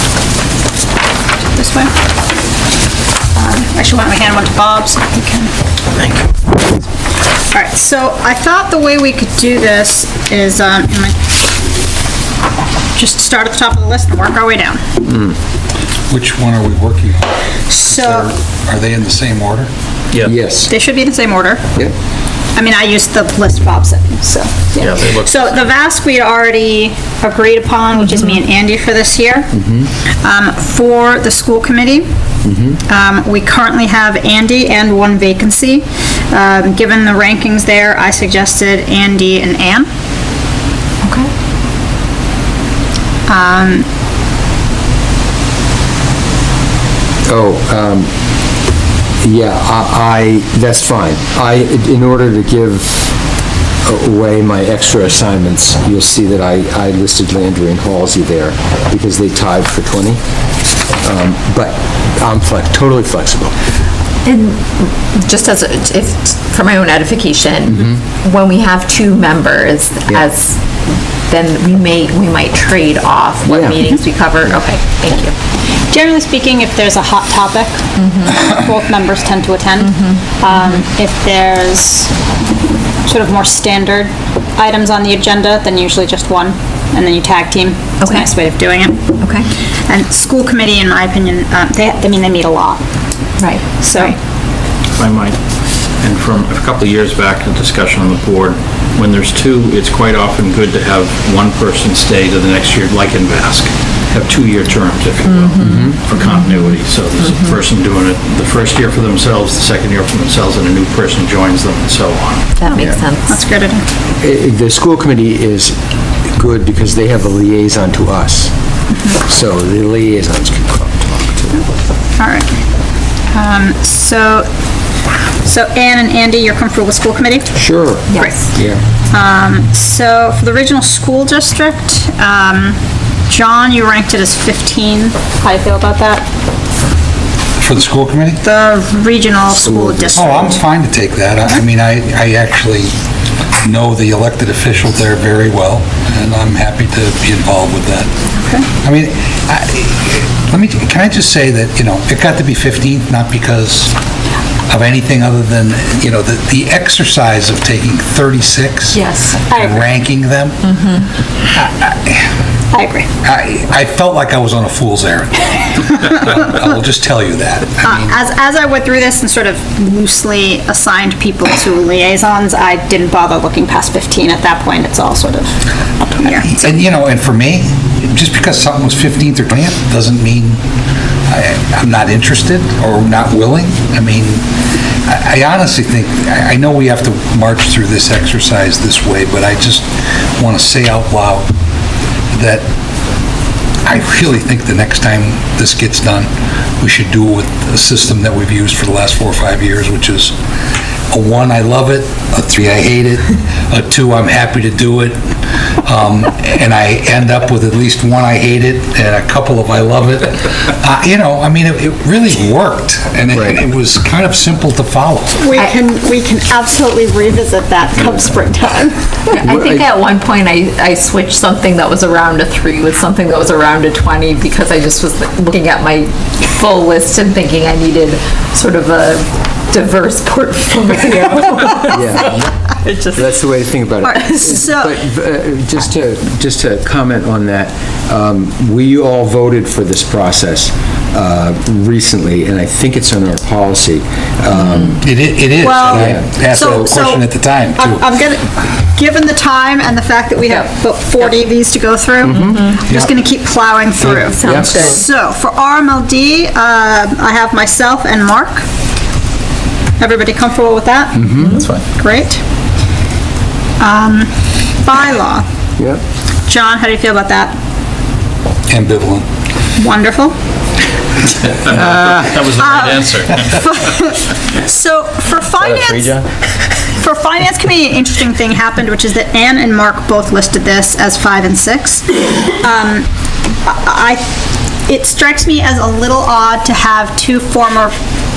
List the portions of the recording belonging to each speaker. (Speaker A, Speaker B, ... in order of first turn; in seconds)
Speaker A: 1.5-1.9, 3.4-5.5, 7.5-11.2, 13.0-14.8, 17.7-18.3, 20.7-21.7, 22.6-29.5, 30.2-32.1, 32.9-39.9, 43.3-43.9, 75.9-82.1, 83.1-89.2, 89.9-92.8, 93.8-94.2, 112.7-113.8, 122.2-122.5, 123.3-124.5, 125.4-127.5, 129.1-132.8, 133.3-136.2, 138.4-140.2, 148.4-148.7, 159.5-159.9, 162.7-163.1, 167.8-175.5, 176.0-176.7, 215.4-218.9, 234.0-234.9, 245.6-258.6, 260.0-262.4, 263.8-265.4, 266.5-267.6, 269.8-270.4, 272.5-276.2, 276.9-283.1, 283.6-284.2, 284.9-287.9
Speaker B: 6.0-6.2, 24.8-25.5, 95.0-95.4, 96.0-112.5, 271.4-273.6
Speaker C: 16.1-17.3, 17.9-19.7, 137.6-138.4, 140.1-142.9, 143.6-148.1, 148.8-153.9, 154.7-160.7, 161.5-162.3, 163.2-168.2, 176.3-180.6, 181.3-184.4, 185.1-191.5, 192.3-192.7, 193.8-196.3, 196.8-200.3, 201.1-205.2, 205.8-215.4, 245.0-248.0, 268.7-269.3
Speaker D: 20.2-20.7, 29.6-29.9, 32.5-32.8, 47.3-48.1, 49.2-53.0, 53.8-60.2, 61.0-63.5, 73.5-73.8, 105.6-106.0, 114.2-115.8, 116.3-118.5, 119.1-121.7, 127.6-128.8, 139.5-140.6, 213.3-213.6, 219.4-219.8, 231.9-232.5, 233.2-245.0, 245.8-246.9, 252.2-252.7, 254.4-254.8, 261.2-261.7
Speaker E: 41.0-41.3, 64.2-70.6, 71.3-75.4, 78.0-78.4, 80.1-80.8, 88.0-88.3, 89.2-89.5, 93.4-94.1, 105.3-106.0, 112.6-113.4, 158.9-159.4, 219.3-232.3, 232.8-233.2, 254.3-255.0